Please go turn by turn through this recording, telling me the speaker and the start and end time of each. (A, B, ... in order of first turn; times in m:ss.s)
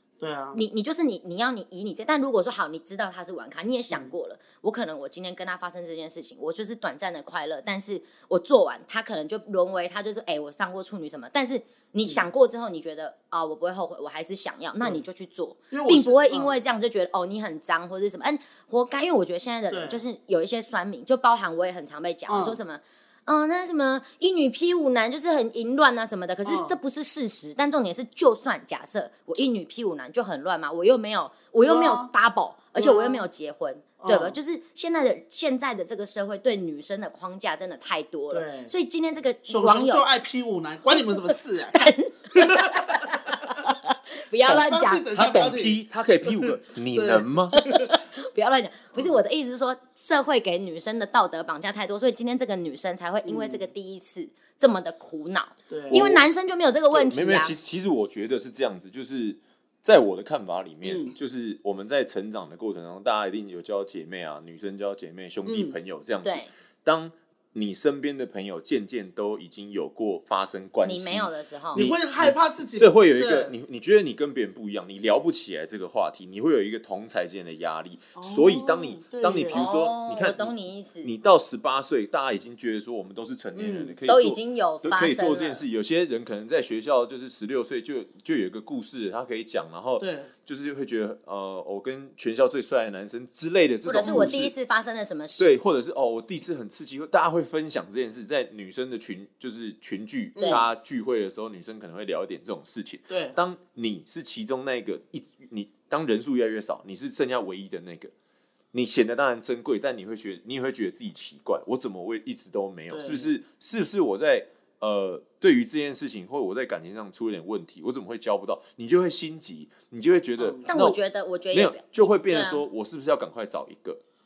0:00.2-0:00.6 A
0:00.5-0:40.0 B
0:15.7-0:16.6 A
0:19.7-0:20.0 A
0:22.3-0:22.6 A
0:26.4-0:26.8 A
0:31.6-0:32.1 A
0:32.8-0:33.2 A
0:34.0-0:34.4 A
0:38.3-0:38.7 A
0:39.5-0:43.4 A
0:41.2-0:45.0 B
0:44.4-0:45.8 A
0:45.1-0:47.6 C
0:46.3-0:48.0 A
0:47.5-0:57.5 B
0:53.2-0:53.7 A
0:55.7-0:56.2 A
0:56.9-1:34.5 C
1:00.8-1:01.2 A
1:05.4-1:05.8 A
1:06.2-1:06.5 B
1:10.8-1:11.8 B
1:11.7-1:13.5 A
1:18.2-1:19.7 A
1:19.5-1:21.1 B
1:23.5-1:24.0 A
1:24.1-1:25.6 B
1:30.0-1:30.3 A
1:33.9-1:35.6 B
1:34.0-1:34.4 A
1:35.4-1:48.1 C
1:40.4-1:40.7 A
1:40.4-1:40.6 B
1:43.1-1:43.4 A
1:48.7-2:01.0 C
1:52.9-1:53.3 A
2:00.4-2:00.7 A
2:00.7-2:02.6 B
2:01.5-2:04.0 C